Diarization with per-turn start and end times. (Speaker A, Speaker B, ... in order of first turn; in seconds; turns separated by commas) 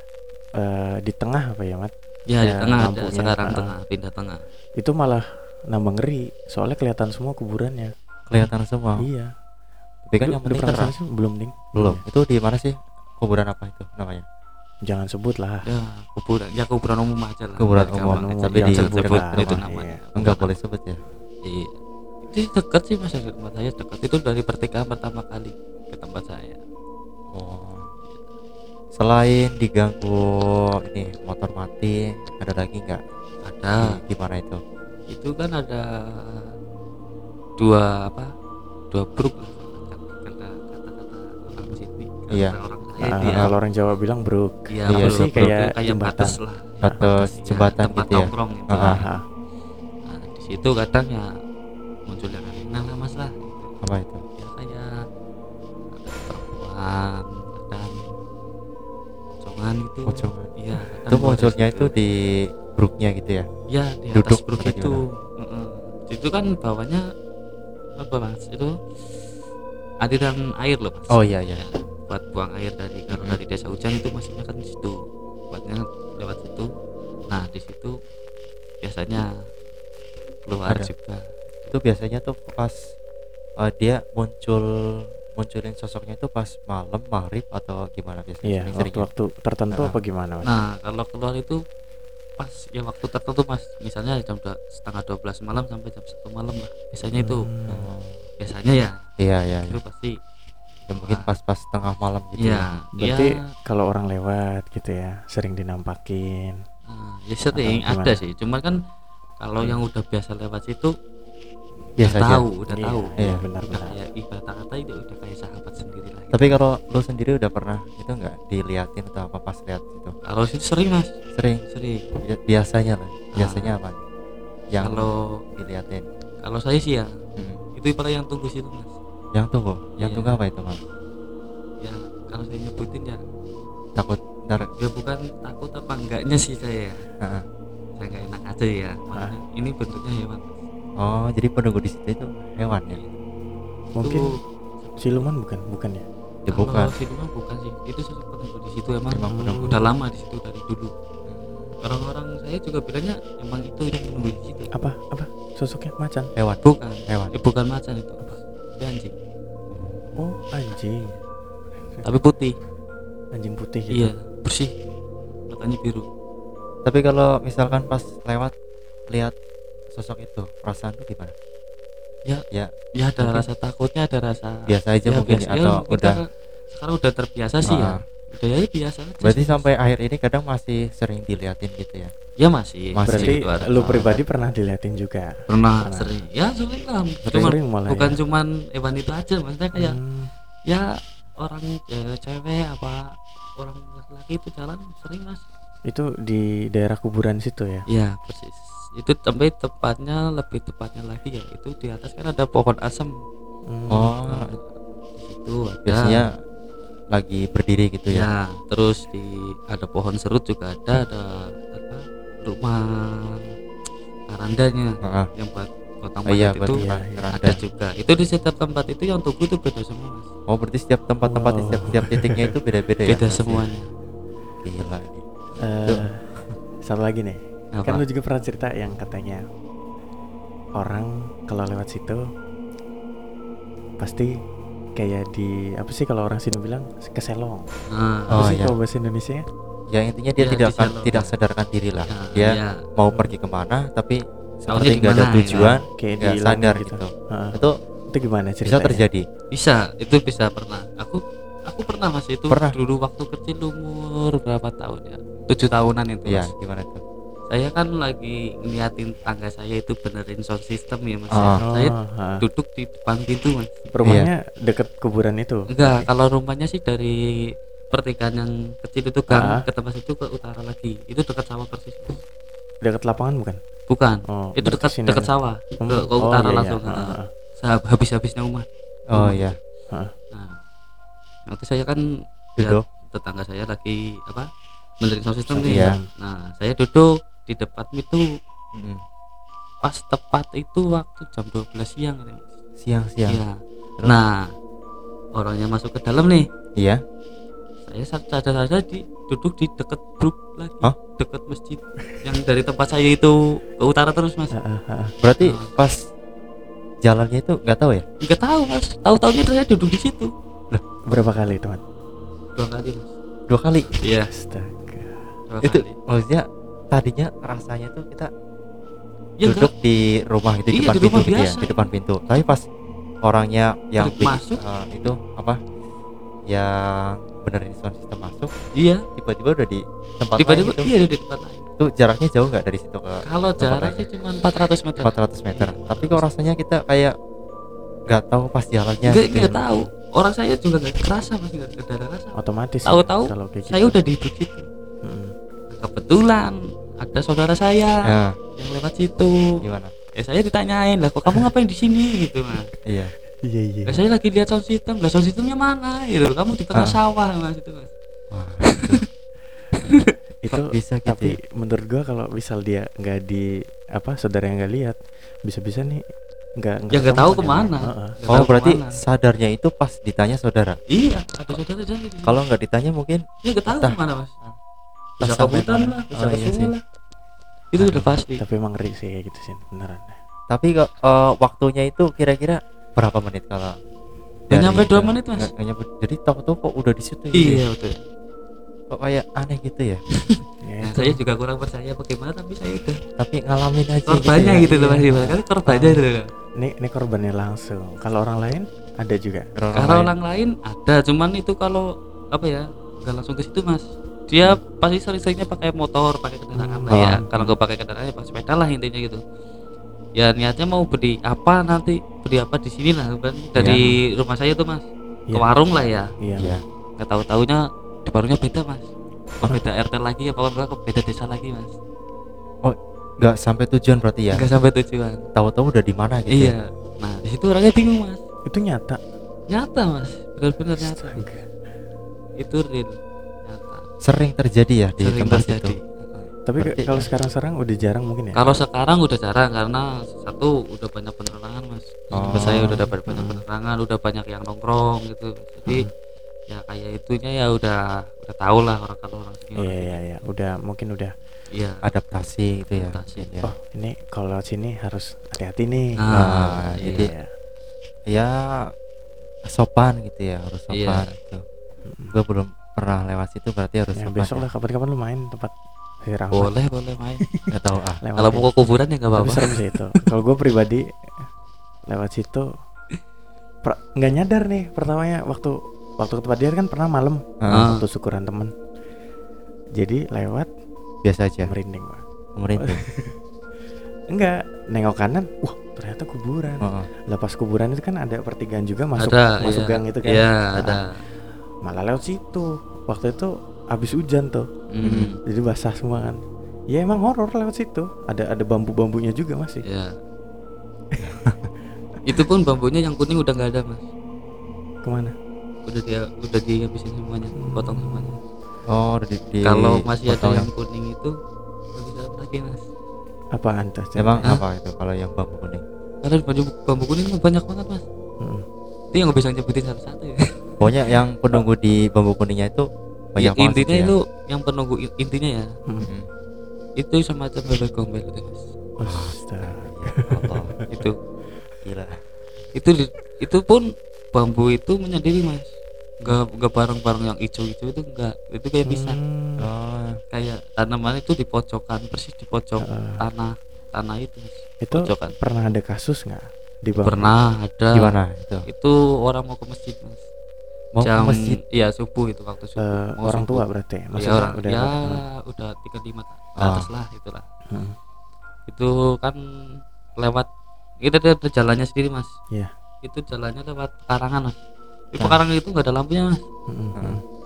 Speaker A: 0.6-3.8, Speaker B: 2.3-4.4, Speaker A: 4.8-7.9, Speaker C: 8.3-9.1, Speaker A: 8.4-9.3, Speaker C: 10.1-10.9, Speaker A: 10.2-12.0, Speaker C: 11.8-14.2, Speaker A: 14.9-15.7, Speaker B: 15.7-20.5, Speaker C: 17.6-19.6, Speaker A: 17.9-20.0, Speaker C: 20.2-21.0, Speaker B: 21.4-21.8, Speaker B: 22.3-26.6, Speaker C: 27.3-27.9, Speaker C: 28.9-33.0, Speaker B: 33.5-34.0, Speaker C: 33.8-34.6, Speaker B: 35.1-36.5, Speaker B: 37.6-38.3, Speaker B: 38.9-43.5, Speaker A: 43.1-47.0, Speaker C: 43.1-43.5, Speaker B: 44.7-49.1, Speaker C: 44.9-45.5, Speaker C: 46.8-49.0, Speaker A: 48.8-49.2, Speaker B: 50.1-51.3, Speaker B: 52.1-53.7, Speaker C: 53.8-54.2, Speaker B: 54.4-55.0, Speaker B: 56.0-58.1, Speaker B: 59.4-61.9, Speaker C: 60.0-60.5, Speaker C: 61.1-63.5, Speaker B: 63.7-67.0, Speaker C: 64.1-65.0, Speaker B: 68.0-68.8, Speaker B: 70.0-76.7, Speaker C: 71.1-71.6, Speaker C: 73.1-73.4, Speaker B: 77.3-78.0, Speaker B: 78.8-79.3, Speaker B: 80.5-81.7, Speaker C: 81.7-82.8, Speaker C: 83.6-89.1, Speaker A: 88.5-90.5, Speaker B: 90.4-91.6, Speaker B: 92.4-97.5, Speaker A: 97.2-97.9, Speaker C: 97.7-98.2, Speaker B: 98.4-99.0, Speaker C: 99.2-99.8, Speaker B: 99.7-100.2, Speaker C: 100.9-102.7, Speaker B: 101.0-101.3, Speaker B: 102.4-103.4, Speaker A: 103.0-106.6, Speaker B: 106.9-108.8, Speaker A: 107.5-108.2, Speaker B: 109.4-110.9, Speaker C: 112.0-112.5, Speaker B: 112.0-113.2, Speaker A: 112.7-114.0, Speaker C: 113.2-113.4, Speaker B: 113.7-116.6, Speaker C: 116.3-120.2, Speaker B: 120.2-121.1, Speaker C: 121.3-121.7, Speaker B: 121.7-122.1, Speaker C: 122.2-124.0, Speaker B: 123.4-123.7, Speaker C: 124.7-126.1, Speaker B: 124.8-125.4, Speaker B: 126.4-127.1, Speaker B: 127.8-128.9, Speaker C: 129.3-130.8, Speaker B: 130.0-130.4, Speaker B: 131.8-133.2, Speaker C: 134.0-134.7, Speaker B: 134.7-137.1, Speaker B: 138.0-140.5, Speaker C: 141.0-143.0, Speaker A: 144.0-144.3, Speaker B: 144.0-145.3, Speaker A: 145.0-146.1, Speaker C: 146.4-146.9, Speaker B: 146.5-150.9, Speaker C: 149.2-149.7, Speaker A: 149.3-149.8, Speaker C: 151.3-151.7, Speaker B: 151.8-154.7, Speaker A: 154.7-156.3, Speaker C: 156.4-157.3, Speaker B: 156.6-159.2, Speaker C: 159.7-160.2, Speaker A: 160.2-161.2, Speaker B: 162.0-162.6, Speaker A: 163.3-164.1, Speaker B: 163.9-164.8, Speaker B: 165.5-166.1, Speaker C: 166.8-168.5, Speaker C: 169.9-171.3, Speaker B: 173.0-179.7, Speaker C: 174.7-176.2, Speaker C: 177.7-178.0, Speaker C: 179.2-182.1, Speaker B: 182.4-184.2, Speaker C: 182.9-183.4, Speaker A: 183.1-186.2, Speaker B: 185.5-190.0, Speaker A: 187.3-188.2, Speaker A: 189.8-190.3, Speaker B: 190.7-195.4, Speaker A: 195.9-197.8, Speaker B: 197.9-203.1, Speaker A: 203.7-204.2, Speaker C: 203.9-204.5, Speaker B: 204.3-204.6, Speaker B: 205.2-206.2, Speaker C: 205.9-206.3, Speaker C: 207.1-208.3, Speaker B: 208.1-213.5, Speaker B: 214.3-220.3, Speaker C: 215.0-215.3, Speaker C: 216.3-217.6, Speaker A: 216.8-217.3, Speaker C: 220.5-223.7, Speaker A: 221.3-222.5, Speaker B: 223.1-223.9, Speaker C: 224.6-225.2, Speaker A: 225.6-226.3, Speaker C: 225.9-226.6, Speaker A: 226.8-229.4, Speaker B: 227.8-228.0, Speaker A: 230.8-232.2, Speaker A: 234.0-234.3, Speaker A: 235.0-237.7, Speaker B: 237.9-238.4, Speaker A: 238.3-239.4, Speaker C: 238.3-238.8, Speaker C: 239.9-247.8, Speaker B: 240.4-241.3, Speaker B: 242.1-242.8, Speaker B: 244.7-245.8, Speaker A: 245.5-249.0, Speaker C: 248.7-249.2, Speaker B: 249.5-256.5, Speaker C: 252.5-252.8, Speaker C: 256.3-257.0, Speaker B: 257.5-263.8, Speaker C: 261.4-261.6, Speaker A: 261.6-262.4, Speaker A: 263.9-266.1, Speaker B: 265.7-272.2, Speaker A: 269.3-269.6, Speaker A: 272.8-273.6, Speaker B: 273.9-279.5, Speaker A: 274.3-277.3, Speaker C: 279.1-279.6, Speaker B: 280.3-280.6, Speaker B: 281.5-282.1, Speaker C: 282.6-282.8, Speaker B: 282.6-284.5, Speaker B: 285.0-288.3, Speaker A: 285.5-286.1, Speaker C: 285.6-286.0, Speaker C: 288.7-289.0, Speaker B: 289.8-292.5, Speaker C: 292.8-293.4, Speaker B: 293.3-294.5, Speaker B: 295.4-296.5, Speaker C: 296.8-297.0, Speaker B: 297.9-304.6, Speaker A: 304.5-305.1, Speaker C: 305.2-306.0, Speaker B: 305.4-305.7, Speaker C: 307.0-308.1, Speaker B: 308.2-310.3, Speaker A: 311.1-311.8, Speaker B: 312.6-313.1, Speaker C: 313.5-314.0, Speaker B: 314.0-314.3, Speaker A: 314.3-315.3, Speaker B: 315.5-316.0, Speaker C: 315.6-318.3, Speaker B: 319.4-319.7, Speaker C: 319.4-322.6, Speaker B: 320.7-321.9, Speaker C: 323.2-325.6, Speaker B: 324.0-324.6, Speaker C: 326.5-328.5, Speaker B: 328.8-329.1, Speaker C: 329.2-330.9, Speaker B: 330.4-331.7, Speaker C: 331.8-334.1, Speaker B: 333.2-336.3, Speaker C: 335.0-337.1, Speaker C: 338.1-339.9, Speaker B: 339.0-344.7, Speaker A: 342.4-344.0, Speaker A: 345.0-345.4, Speaker B: 345.7-349.4, Speaker C: 348.0-348.4, Speaker C: 349.6-349.9, Speaker B: 350.1-352.7, Speaker C: 352.9-353.1, Speaker A: 353.4-354.0, Speaker B: 353.9-357.9, Speaker C: 358.3-359.0, Speaker B: 358.7-359.0, Speaker B: 359.7-360.1, Speaker A: 360.4-366.1, Speaker C: 360.5-361.4, Speaker A: 366.6-368.2, Speaker B: 366.9-369.0, Speaker C: 368.3-370.8, Speaker B: 370.9-372.4, Speaker C: 372.2-374.6, Speaker B: 373.4-374.3, Speaker B: 375.2-376.8, Speaker C: 375.2-376.7, Speaker B: 377.7-378.4, Speaker A: 378.3-380.2, Speaker C: 380.5-383.8, Speaker C: 384.5-387.6, Speaker B: 384.5-385.5, Speaker B: 387.4-388.0, Speaker C: 388.9-390.0, Speaker B: 390.3-393.0, Speaker A: 390.6-391.2, Speaker C: 393.2-394.6, Speaker B: 394.1-396.3, Speaker A: 394.4-396.0, Speaker A: 396.6-399.5, Speaker C: 399.6-400.1, Speaker B: 399.8-409.2, Speaker A: 406.5-407.5, Speaker B: 410.2-416.1, Speaker A: 416.2-416.6, Speaker C: 416.4-416.6, Speaker B: 417.0-418.9, Speaker B: 419.4-421.8, Speaker C: 422.6-424.5, Speaker B: 424.3-425.2, Speaker C: 425.4-426.6, Speaker B: 426.3-428.2, Speaker A: 428.5-429.0, Speaker B: 429.5-431.2, Speaker A: 430.8-431.5, Speaker B: 432.4-432.9, Speaker B: 433.5-433.9, Speaker C: 434.0-437.1, Speaker B: 435.0-435.8, Speaker A: 436.5-438.6, Speaker B: 438.4-445.9, Speaker C: 442.1-442.7, Speaker A: 442.1-443.4, Speaker B: 446.5-450.0, Speaker A: 449.6-451.1, Speaker B: 451.5-451.8, Speaker C: 451.8-453.5, Speaker B: 452.7-453.3, Speaker A: 453.4-456.0, Speaker B: 456.0-457.1, Speaker C: 456.1-457.1, Speaker A: 456.8-457.3, Speaker C: 458.1-458.6, Speaker C: 459.5-461.4, Speaker B: 460.7-461.1, Speaker A: 461.9-462.1, Speaker C: 462.1-464.4, Speaker A: 464.0-466.5, Speaker B: 466.3-467.2, Speaker A: 467.2-467.5, Speaker C: 467.5-468.0, Speaker A: 468.0-468.5, Speaker B: 468.2-469.6, Speaker A: 469.1-471.3, Speaker A: 471.9-472.5, Speaker A: 473.6-478.5, Speaker C: 477.4-477.7, Speaker B: 477.5-477.8, Speaker A: 479.8-480.5, Speaker C: 481.0-481.5, Speaker A: 481.4-482.0, Speaker C: 482.4-482.8, Speaker A: 482.6-483.2, Speaker A: 484.1-490.9, Speaker C: 486.6-486.9, Speaker B: 489.0-491.0, Speaker A: 491.6-494.5, Speaker B: 494.7-495.2, Speaker C: 494.9-495.1, Speaker A: 495.2-499.6, Speaker B: 499.6-500.0, Speaker A: 500.9-501.2, Speaker C: 501.1-501.4, Speaker B: 502.1-503.9, Speaker A: 504.8-505.1, Speaker B: 505.7-508.2, Speaker A: 507.4-508.2, Speaker C: 508.7-510.5, Speaker B: 509.4-511.2, Speaker B: 511.8-512.6, Speaker A: 513.3-514.4, Speaker C: 514.0-515.6, Speaker B: 516.0-517.9, Speaker A: 518.2-518.5, Speaker B: 518.9-520.6, Speaker C: 520.6-524.0, Speaker B: 523.2-525.5, Speaker C: 525.8-526.1, Speaker B: 526.8-528.4, Speaker A: 528.8-530.4, Speaker C: 528.9-530.7, Speaker B: 530.7-531.0, Speaker C: 531.6-532.0, Speaker B: 532.5-539.0, Speaker A: 538.7-539.5, Speaker C: 539.4-540.0, Speaker B: 540.1-545.2, Speaker A: 542.6-543.0, Speaker A: 544.6-547.1, Speaker B: 546.8-548.0, Speaker C: 547.7-548.5, Speaker B: 548.5-550.0, Speaker C: 550.8-551.4, Speaker B: 550.8-553.5, Speaker A: 552.6-555.0, Speaker B: 554.0-557.3, Speaker C: 556.4-556.7, Speaker A: 557.5-557.8, Speaker B: 558.5-559.2, Speaker B: 560.0-560.3, Speaker B: 560.8-562.1, Speaker B: 562.8-564.4, Speaker B: 564.9-566.2, Speaker A: 566.5-567.0